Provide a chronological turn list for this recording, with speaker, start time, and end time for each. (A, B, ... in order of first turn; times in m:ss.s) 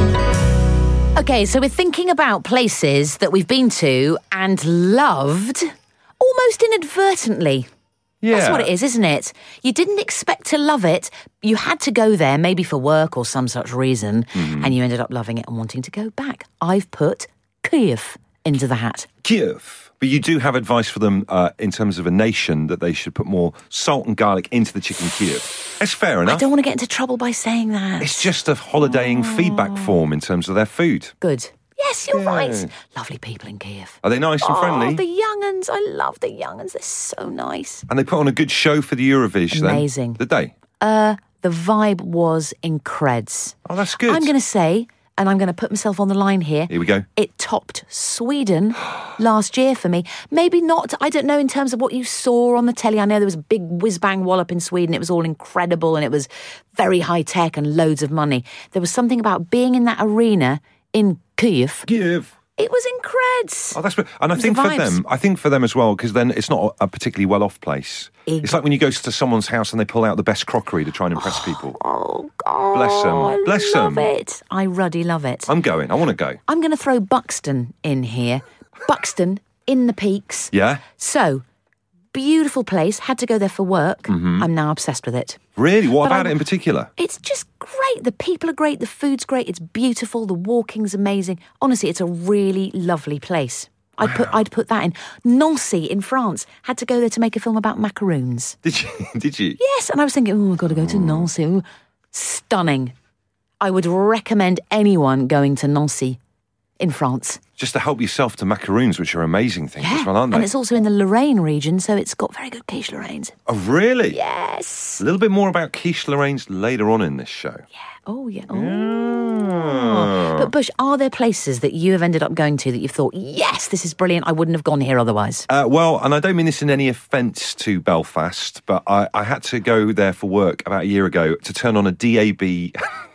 0:01.2-0:07.7 A
0:08.2-0:08.7 B
0:08.3-0:19.1 A
0:14.3-0:14.7 B
0:19.2-0:26.5 B
0:26.2-0:28.3 A
0:28.0-0:31.1 B
0:28.9-0:29.9 A
0:31.2-0:37.8 A
0:32.1-0:32.7 B
0:34.0-0:35.0 B
0:37.9-0:40.5 B
0:39.5-0:40.2 A
0:40.8-1:01.9 A
0:43.6-0:44.3 B
0:46.7-0:47.0 B
1:01.8-1:02.3 B
1:02.6-1:03.8 A
1:03.7-1:11.8 B
1:04.4-1:05.0 A
1:08.3-1:08.6 A
1:11.2-1:15.5 A
1:12.7-1:14.1 B
1:15.5-1:16.4 B
1:16.5-1:21.4 A
1:20.5-1:20.8 B
1:22.1-1:25.4 A
1:24.1-1:24.5 B
1:25.6-1:26.9 B
1:26.0-1:26.4 A
1:27.0-1:38.6 A
1:34.0-1:34.4 B
1:38.6-1:39.6 B
1:39.6-1:42.9 A
1:40.8-1:41.3 B
1:43.6-1:46.2 A
1:46.8-1:47.4 A
1:47.6-1:50.5 B
1:49.8-1:53.4 A
1:53.5-1:54.2 B
1:54.1-1:55.0 A
1:55.0-1:57.6 B
1:58.0-2:05.5 A
1:58.5-2:00.5 B
2:05.5-2:13.0 B